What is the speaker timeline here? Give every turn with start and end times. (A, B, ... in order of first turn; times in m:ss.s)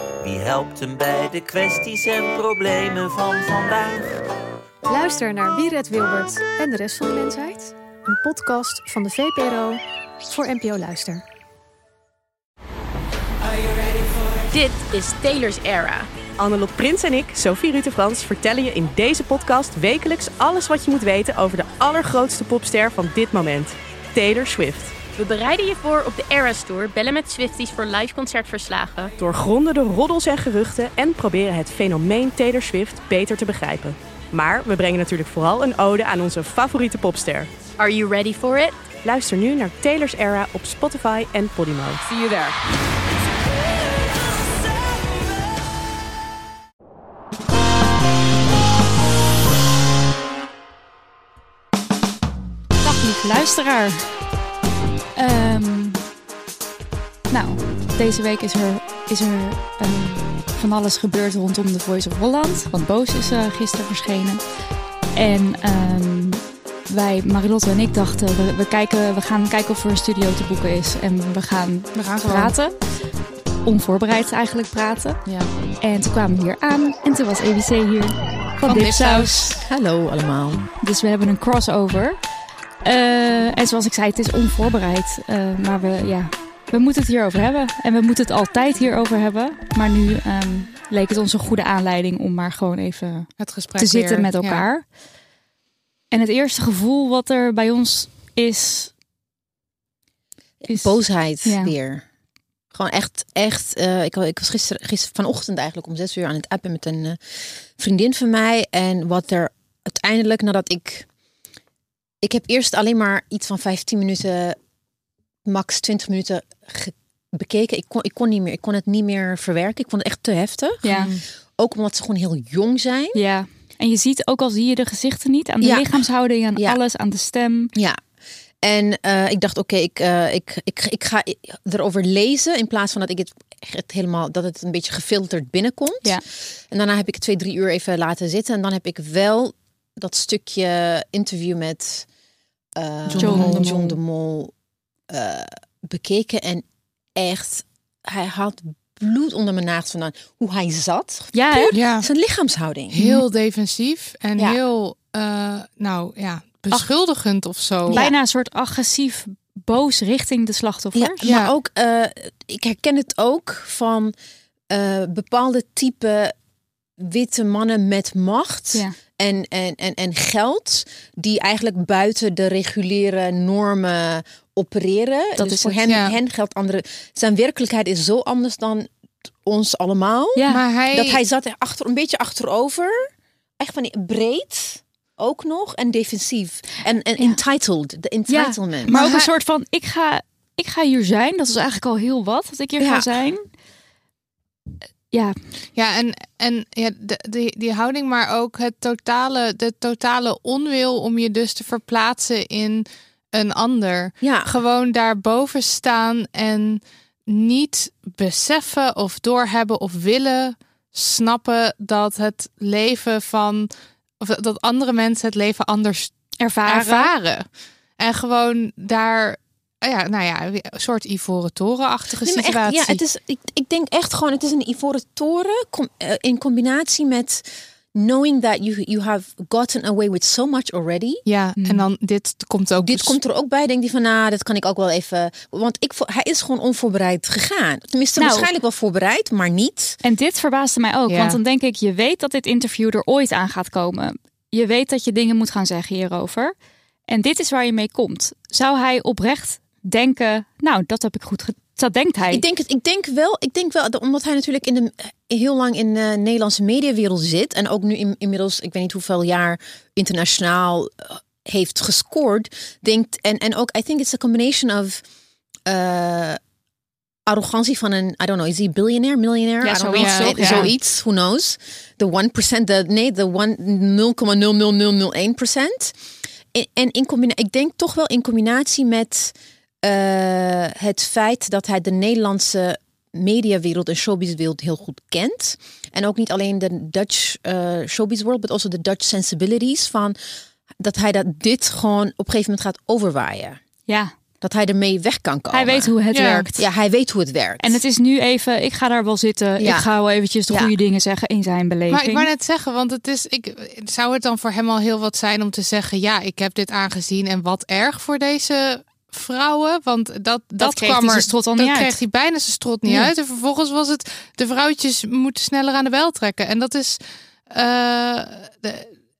0:00.2-0:04.2 A
0:04.8-0:11.2 B
0:14.5-0:16.1 C
0:16.4-0:25.1 D
0:25.0-0:29.1 C
0:29.2-0:42.1 D
0:52.8-0:54.2 E
0:55.2-0:56.0 E
0:57.3-1:13.1 E
1:11.9-1:12.5 F
1:13.6-1:15.2 E
1:15.8-1:19.6 E
1:18.6-1:19.6 F
1:19.6-1:20.7 G
1:20.8-1:22.2 E
1:22.8-1:34.9 E
1:33.4-1:34.6 F
1:36.1-1:38.9 E
1:40.6-1:42.0 G
1:40.7-1:41.7 E
1:42.7-1:51.1 G
1:52.2-1:54.6 G
1:55.4-2:03.2 G
2:00.8-2:01.1 E
2:00.9-2:01.2 F
2:03.1-2:07.7 E
2:05.6-2:06.0 G
2:07.7-2:08.0 G
2:08.6-2:22.0 G
2:22.8-2:24.5 G
2:23.1-2:23.7 F
2:23.2-2:23.9 E
2:25.1-2:33.0 G
2:31.3-2:31.7 E
2:31.7-2:32.0 F
2:32.9-2:38.0 F
2:33.0-2:33.2 E
2:37.9-2:38.1 G
2:37.9-2:41.2 E
2:40.9-2:44.1 G
2:41.2-2:41.5 F
2:44.7-2:46.3 G
2:47.0-2:58.9 G
2:55.4-2:55.8 E
2:55.9-2:56.1 F
2:59.4-3:08.9 G
3:00.3-3:00.6 E
3:00.5-3:01.2 F
3:08.3-3:13.4 E
3:08.9-3:09.3 F
3:12.8-3:13.1 G
3:15.8-3:33.7 F
3:24.2-3:24.5 G
3:34.2-3:37.5 F
3:36.4-3:37.1 E
3:38.0-3:43.0 F
3:42.2-3:51.2 G
3:51.2-3:53.2 F
3:51.6-3:51.8 E
3:52.8-4:00.0 G
3:58.2-3:58.5 E
4:00.0-4:06.5 E
4:01.1-4:01.4 F
4:07.1-4:12.4 E
4:12.3-4:25.0 G
4:25.6-4:26.4 G
4:27.2-4:36.0 G
4:29.6-4:30.7 E
4:30.0-4:30.7 F
4:36.5-4:50.2 G
4:50.8-4:53.6 G
4:53.9-4:54.1 E
4:54.4-4:55.9 G
4:55.5-4:56.6 E
4:56.1-4:56.4 F
4:56.6-4:57.8 G
4:57.6-5:02.3 E
4:59.6-4:59.9 G
5:01.9-5:17.0 F
5:10.6-5:12.0 E
5:17.5-5:18.9 F